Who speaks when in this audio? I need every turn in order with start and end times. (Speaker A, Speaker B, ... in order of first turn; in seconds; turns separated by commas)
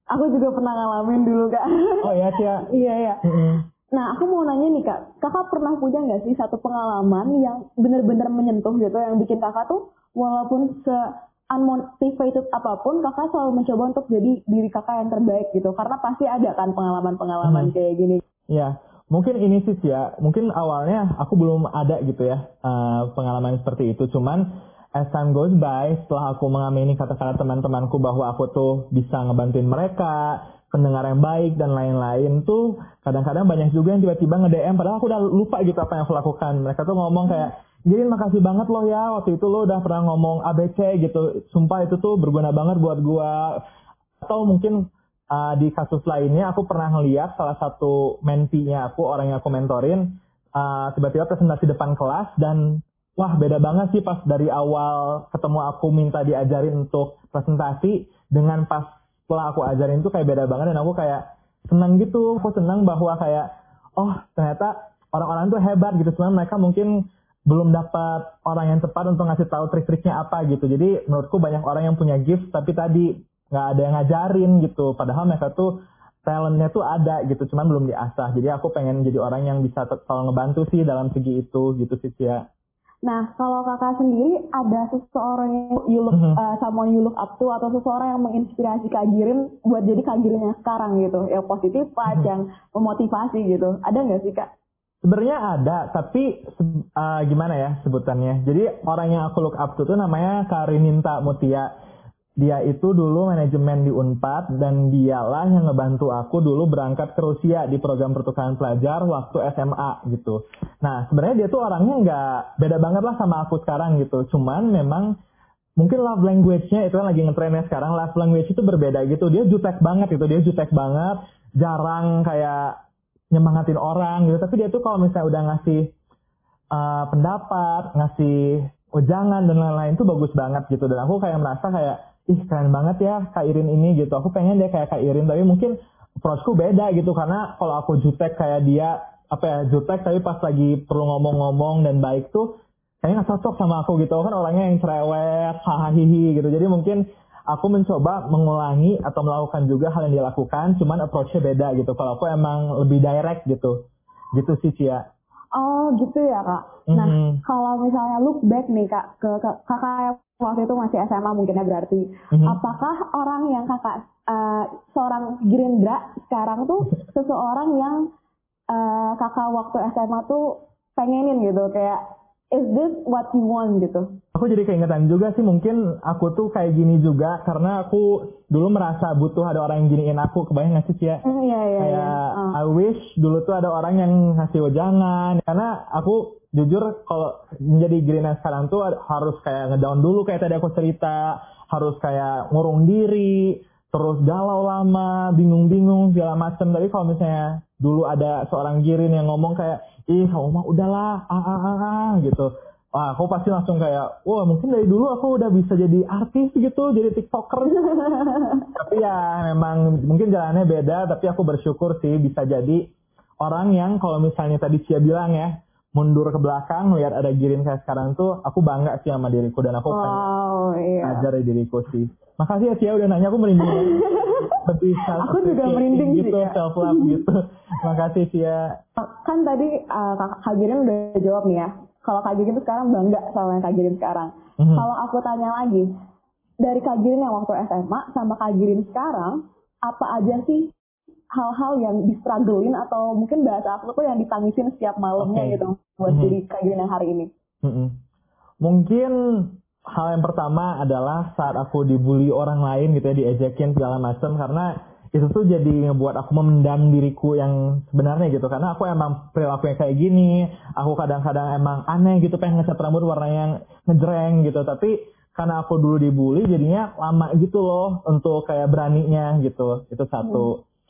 Speaker A: 0.1-3.2, Speaker B: 2.0-2.7, Speaker B: 3.2-3.6, Speaker A: 3.9-18.2, Speaker B: 17.4-17.7, Speaker B: 18.5-43.6, Speaker B: 44.2-82.5, Speaker A: 83.0-94.5, Speaker B: 86.1-86.4, Speaker B: 95.0-101.7, Speaker B: 102.4-115.1, Speaker B: 115.8-122.8, Speaker B: 123.3-126.0, Speaker B: 126.7-155.1, Speaker A: 155.5-168.1, Speaker B: 156.9-157.4, Speaker B: 162.3-162.6, Speaker A: 168.7-174.2, Speaker B: 174.3-181.2, Speaker A: 181.2-182.6, Speaker B: 181.8-208.0, Speaker A: 207.9-208.7, Speaker B: 208.6-220.2, Speaker A: 219.9-221.2, Speaker B: 221.0-228.8, Speaker A: 223.6-224.6, Speaker A: 225.1-227.2, Speaker A: 229.0-235.9, Speaker B: 234.6-234.9, Speaker A: 236.6-240.7, Speaker A: 241.3-247.3, Speaker B: 245.2-246.4, Speaker B: 247.6-248.0, Speaker B: 248.6-270.6